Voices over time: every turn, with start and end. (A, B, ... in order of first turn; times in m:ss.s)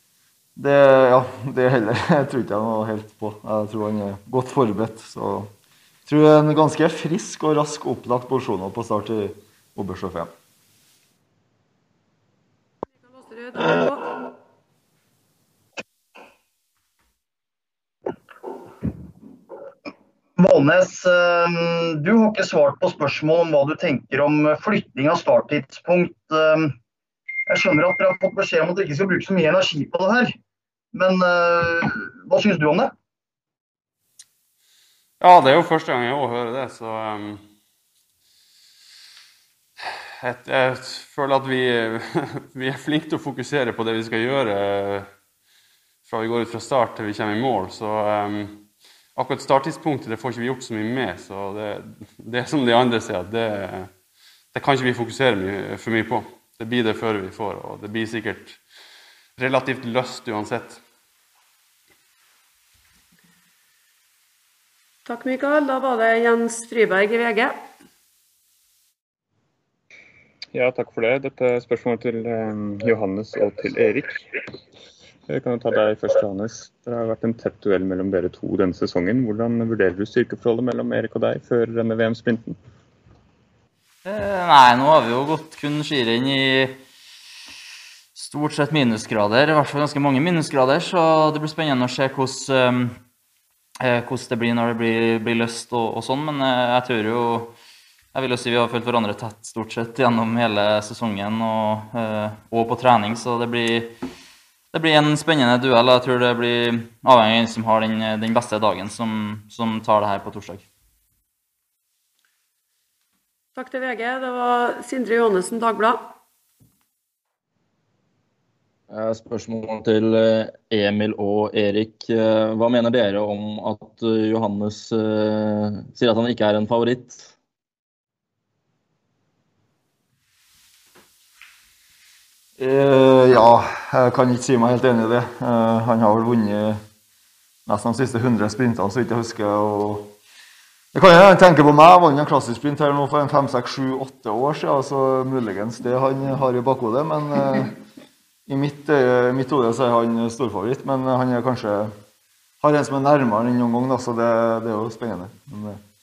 0:00.6-0:05.5 A
0:06.1-0:10.3 A
0:13.0-0:14.2 B
0:20.4-0:26.7 C
0:27.5-0:30.4 C
0:30.9-0:32.9 C
0:35.2-0:37.5 D
0:40.2-0:45.1 D
0:46.0-0:54.0 D
0:54.5-0:58.6 D
0:59.4-1:00.8 D
1:05.1-1:07.6 B
1:10.5-1:14.2 E
1:15.3-1:22.6 E
1:24.0-1:26.8 F
1:28.2-1:33.0 F
1:33.8-1:37.5 F
1:38.1-1:43.9 F
1:44.7-1:50.6 F
1:53.6-1:56.1 B
1:58.9-2:07.3 G
2:12.6-2:16.8 A
2:17.7-2:20.1 A
2:20.9-2:27.8 A
2:28.5-2:31.9 A
2:32.6-2:35.8 A